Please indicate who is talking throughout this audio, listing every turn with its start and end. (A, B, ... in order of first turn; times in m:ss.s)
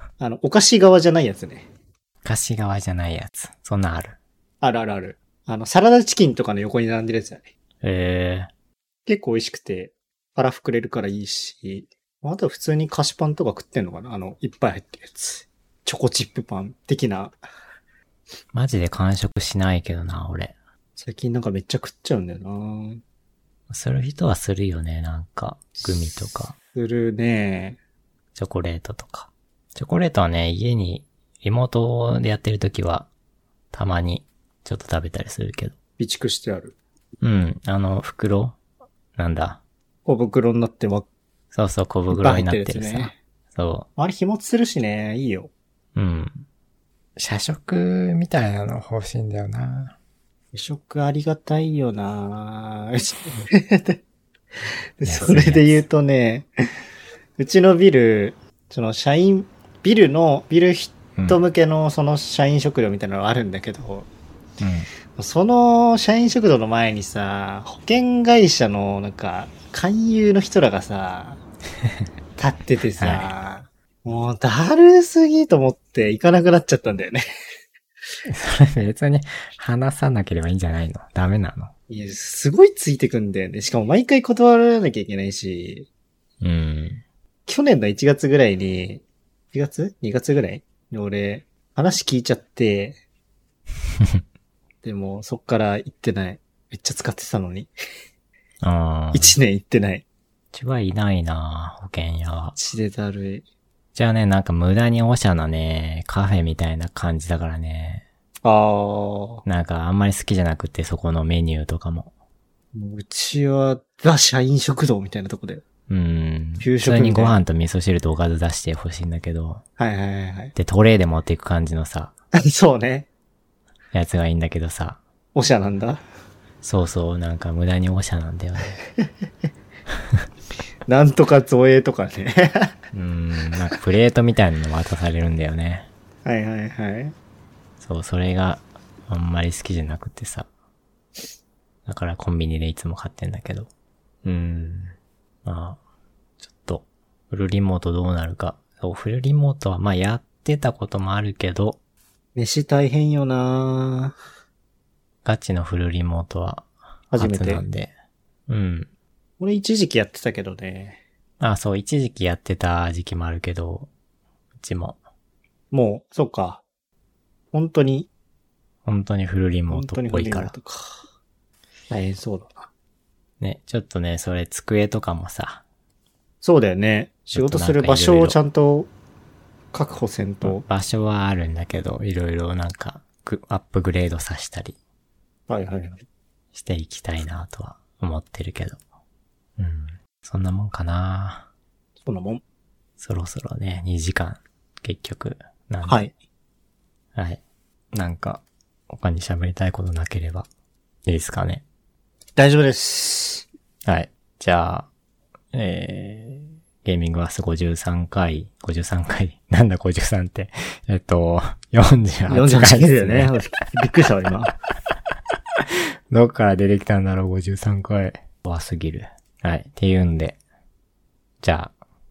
0:00.2-0:01.7 A
0:02.2-0:04.2 B
0:04.6-0:07.5 A
0:07.8-0:08.5 B
0:09.0-0:17.4 A
0:18.5-0:20.6 B
0:21.0-0:23.0 A
0:23.7-0:26.5 B
0:26.7-0:27.8 A
0:28.3-0:33.1 B
0:33.7-0:35.7 B
0:36.0-0:36.7 A
0:37.2-0:38.6 B
0:39.2-0:39.6 B
0:40.0-0:41.1 A
0:41.5-0:43.9 B
0:42.1-0:43.1 A
0:44.0-0:45.5 A
0:45.9-0:46.4 B
0:47.2-0:50.0 B
0:50.5-0:54.0 A
0:55.0-0:56.5 A
0:55.0-0:55.8 B
0:57.4-1:04.1 A
1:04.6-1:04.9 B
1:05.2-1:11.4 A
1:12.4-1:17.2 A
1:13.0-1:13.3 B
1:18.3-1:21.7 B
1:21.9-1:25.9 A
1:26.4-1:27.0 B
1:27.5-1:33.0 A
1:34.8-1:37.7 A
1:38.6-1:39.4 B
1:39.1-1:40.0 A
1:40.5-1:42.6 B
1:42.5-1:43.4 A
1:43.9-1:48.0 B
1:48.4-1:49.4 A
1:49.4-1:52.1 B
1:52.7-1:55.6 A
1:55.9-1:59.6 B
1:56.6-1:57.4 A
1:59.8-2:00.5 A
2:00.5-2:02.1 B
2:02.3-2:03.1 A
2:03.9-2:05.0 B
2:05.3-2:06.0 A
2:06.6-2:08.8 B
2:10.8-2:12.8 A
2:12.9-2:15.9 B
2:16.2-2:17.2 A
2:17.8-2:20.5 B
2:21.8-2:23.7 B
2:24.2-2:24.9 B
2:25.4-2:25.8 B
2:26.4-2:31.8 B
2:32.4-2:34.2 A
2:35.2-2:37.9 B
2:37.1-2:37.6 A
2:38.5-2:38.9 B
2:39.4-2:41.0 A
2:41.4-2:43.9 B
2:44.6-2:45.0 B
2:45.7-2:46.6 A
2:47.5-2:48.1 A
2:48.8-2:50.5 B
2:49.7-2:51.0 A
2:51.9-2:52.7 A
2:53.4-2:55.6 B
2:56.4-2:58.9 A
2:57.3-2:58.4 B
2:59.7-3:00.6 A
3:00.4-3:04.8 B
3:05.5-3:06.0 A
3:06.5-3:08.8 B
3:09.6-3:11.5 B
3:12.0-3:12.4 A
3:13.0-3:16.0 B
3:15.8-3:16.1 A
3:17.1-3:17.4 B
3:17.9-3:20.5 B
3:21.0-3:21.6 B
3:22.4-3:23.5 A
3:23.8-3:24.9 B
3:25.5-3:33.3 B
3:32.3-3:34.5 A
3:36.1-3:40.4 B
3:41.4-3:41.7 B